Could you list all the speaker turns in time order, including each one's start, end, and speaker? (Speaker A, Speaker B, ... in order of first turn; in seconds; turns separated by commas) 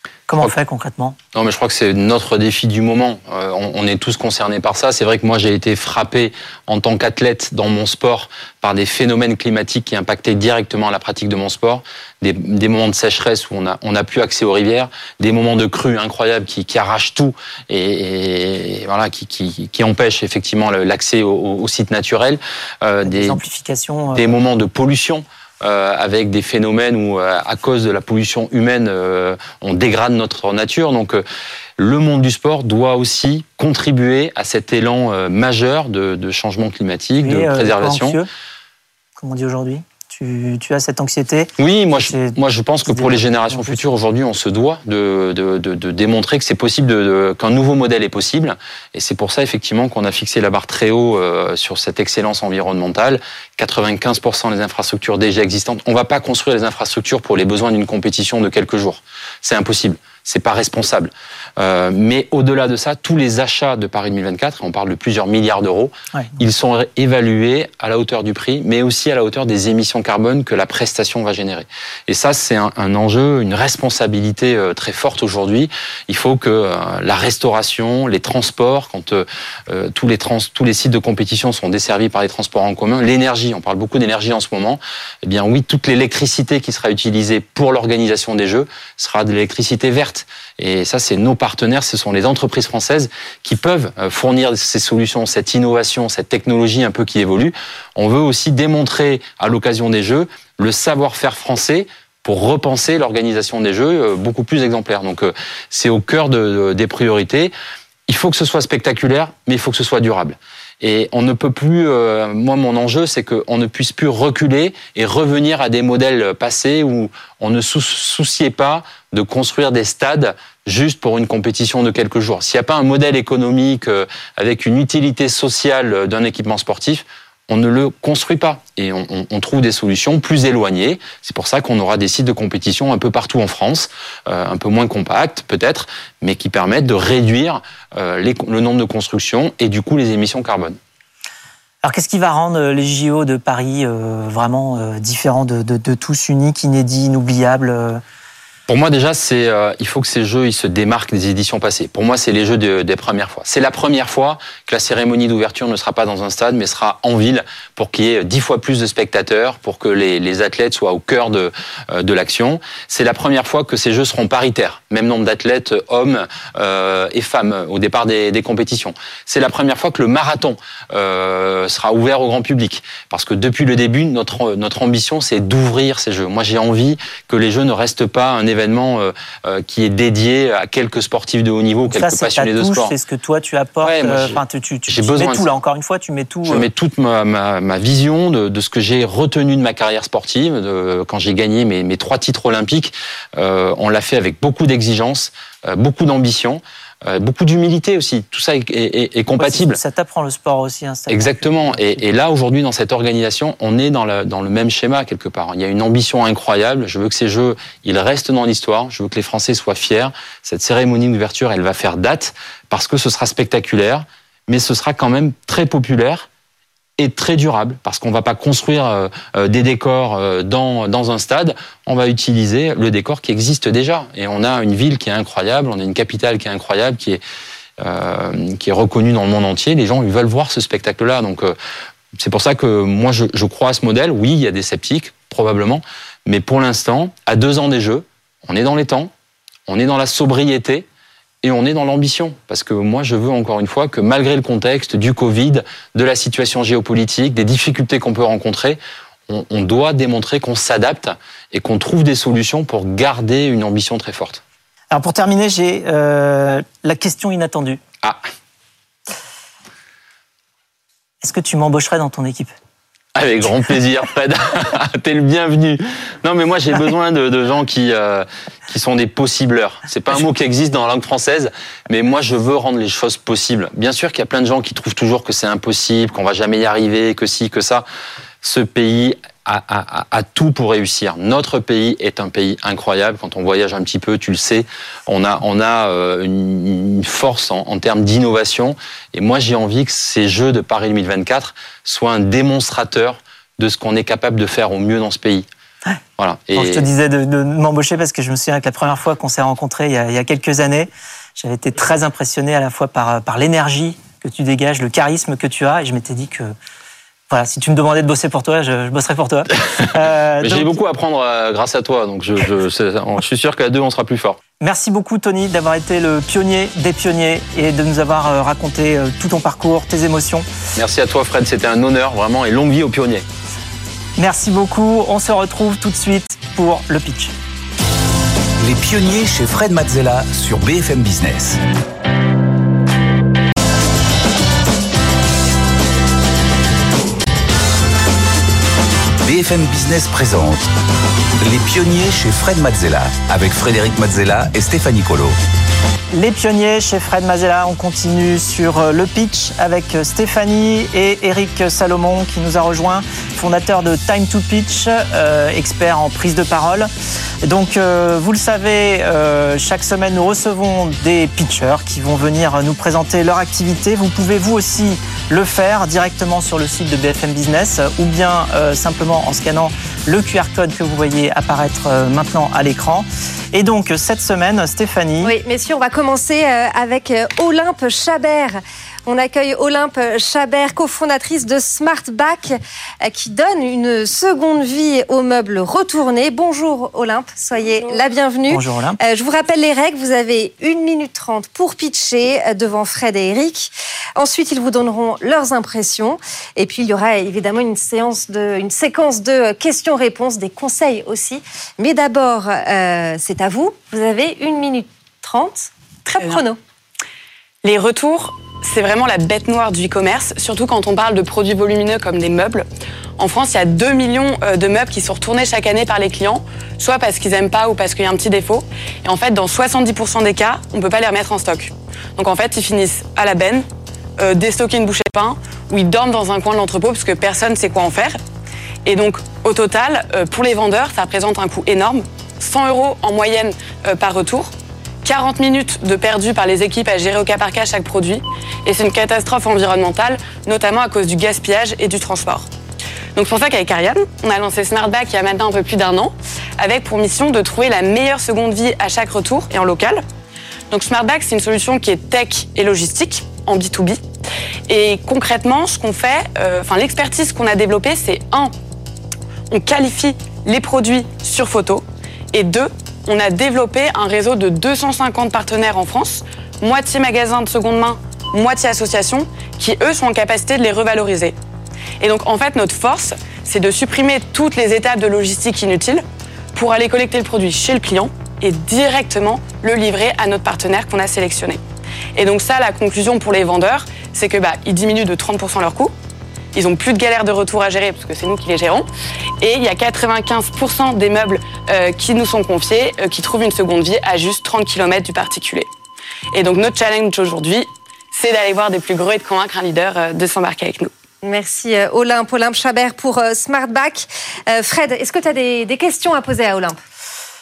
Speaker A: 0.3-1.2, Speaker B: 1.3-23.4, Speaker A: 23.0-24.3, Speaker B: 24.1-31.2, Speaker B: 31.8-38.2, Speaker A: 37.2-38.3, Speaker A: 39.2-43.8, Speaker B: 41.6-107.5, Speaker B: 108.1-140.8, Speaker A: 141.8-148.0, Speaker B: 148.7-182.9, Speaker A: 181.9-186.7, Speaker B: 183.8-185.5, Speaker B: 186.5-199.8, Speaker A: 199.4-202.0, Speaker B: 201.1-216.3, Speaker B: 217.0-227.2, Speaker B: 227.8-231.6, Speaker B: 232.2-239.1, Speaker B: 239.7-240.8, Speaker B: 241.4-254.4, Speaker A: 254.9-257.8, Speaker A: 261.2-262.5, Speaker B: 263.1-277.9, Speaker B: 278.4-295.5, Speaker B: 296.2-296.9, Speaker A: 296.5-306.5, Speaker A: 307.3-310.8, Speaker B: 310.4-314.4, Speaker A: 314.6-320.4, Speaker B: 320.8-323.2, Speaker A: 324.2-327.3, Speaker C: 328.6-331.6, Speaker C: 339.2-340.7, Speaker C: 341.4-345.4, Speaker A: 346.1-356.9, Speaker A: 357.4-375.3, Speaker D: 375.2-406.6, Speaker A: 388.5-389.0, Speaker E: 407.6-412.7, Speaker E: 413.2-423.6, Speaker E: 424.2-428.2, Speaker E: 428.8-434.5, Speaker E: 435.0-442.5, Speaker E: 443.1-450.0, Speaker E: 450.7-454.0, Speaker E: 454.7-458.5, Speaker E: 459.5-471.3, Speaker E: 472.0-481.6, Speaker E: 482.1-485.9, Speaker E: 486.5-488.9, Speaker E: 489.4-495.7, Speaker E: 496.3-500.9, Speaker D: 501.2-506.8